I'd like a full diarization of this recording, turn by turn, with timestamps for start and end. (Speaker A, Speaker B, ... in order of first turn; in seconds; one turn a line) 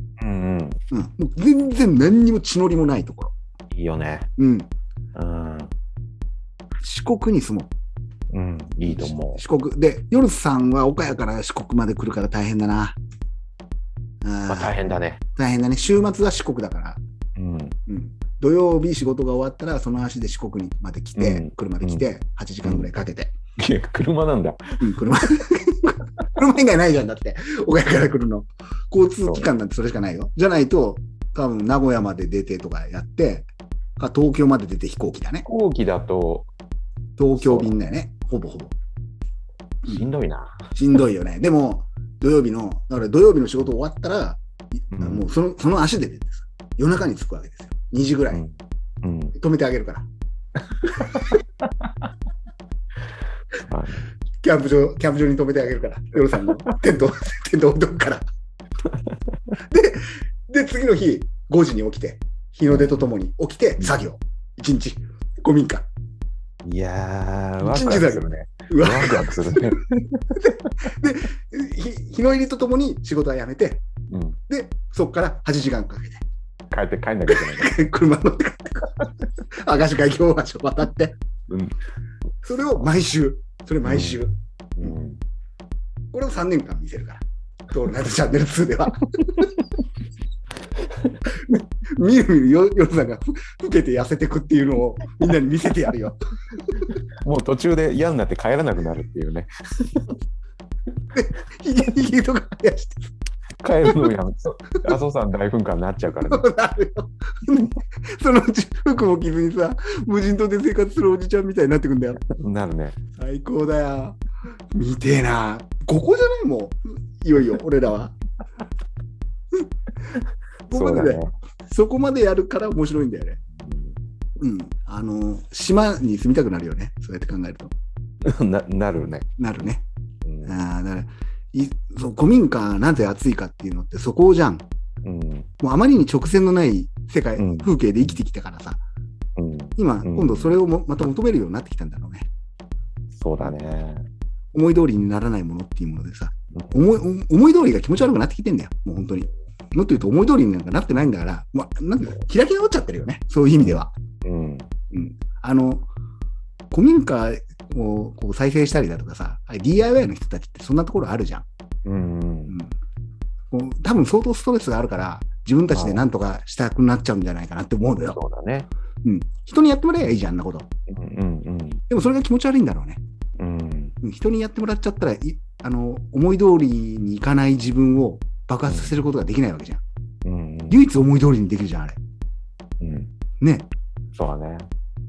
Speaker A: 0.2-0.8
Speaker B: 0.9-3.3
Speaker A: 3.7-4.3
Speaker B: 4.4-4.7
Speaker A: 5.1-5.7
Speaker B: 6.8-7.7
Speaker A: 8.3-9.4
Speaker B: 8.8-13.0
Speaker B: 14.2-14.8
Speaker A: 14.5-15.2
Speaker B: 15.3-17.0
Speaker A: 17.4-17.8
Speaker B: 17.9-23.3
Speaker A: 21.2-22.1
Speaker A: 22.6-22.9
Speaker A: 23.6-24.6
Speaker B: 24.8-35.5
Speaker A: 35.4-36.5
Speaker B: 37.2-38.7
Speaker A: 37.4-37.7
Speaker A: 39.9-40.5
Speaker B: 40.7-48.4
Speaker A: 44.9-45.3
Speaker A: 48.3-49.3
Speaker B: 49.4-50.1
Speaker A: 50.8-51.9
Speaker A: 53.7-54.0
Speaker B: 54.4-58.2
Speaker B: 59.7-65.9
Speaker A: 62.7-63.0
Speaker A: 66.6-70.8
Speaker B: 67.6-69.6
Speaker B: 70.9-73.8
Speaker A: 74.1-74.4
Speaker B: 74.5-76.2
Speaker A: 76.7-77.7
Speaker B: 77.3-78.9
Speaker B: 79.6-81.2
Speaker B: 82.4-85.0
Speaker A: 83.8-84.2
Speaker A: 84.8-85.2
Speaker B: 86.1-89.5
Speaker B: 91.3-96.2
Speaker A: 97.2-100.1
Speaker B: 101.1-103.1
Speaker A: 103.6-106.5
Speaker B: 103.8-104.1
Speaker B: 106.2-112.2
Speaker A: 112.4-113.0
Speaker B: 113.2-114.2
Speaker B: 114.7-118.2
Speaker B: 120.7-123.4
Speaker A: 120.7-121.3
Speaker A: 123.6-124.0
Speaker B: 124.4-127.7
Speaker A: 128.2-129.3
Speaker B: 129.4-129.8
Speaker A: 130.2-130.5
Speaker B: 130.4-134.7
Speaker A: 135.0-135.5
Speaker B: 135.6-138.8
Speaker A: 137.4-138.2
Speaker A: 139.4-140.5
Speaker B: 139.8-142.3
Speaker A: 143.1-144.1
Speaker B: 144.5-153.9
Speaker A: 153.6-154.7
Speaker B: 154.9-155.9
Speaker B: 156.7-161.4
Speaker A: 161.8-162.6
Speaker B: 162.5-162.7
Speaker B: 163.5-168.2
Speaker A: 165.7-166.0
Speaker A: 168.1-168.7
Speaker B: 169.0-170.7
Speaker A: 170.9-171.8
Speaker B: 171.9-173.0
Speaker A: 173.4-173.9
Speaker B: 174.0-179.8
Speaker A: 178.7-179.0
Speaker A: 180.2-180.8
Speaker B: 180.7-182.0
Speaker A: 182.8-183.1
Speaker B: 183.4-183.7
Speaker A: 184.1-184.7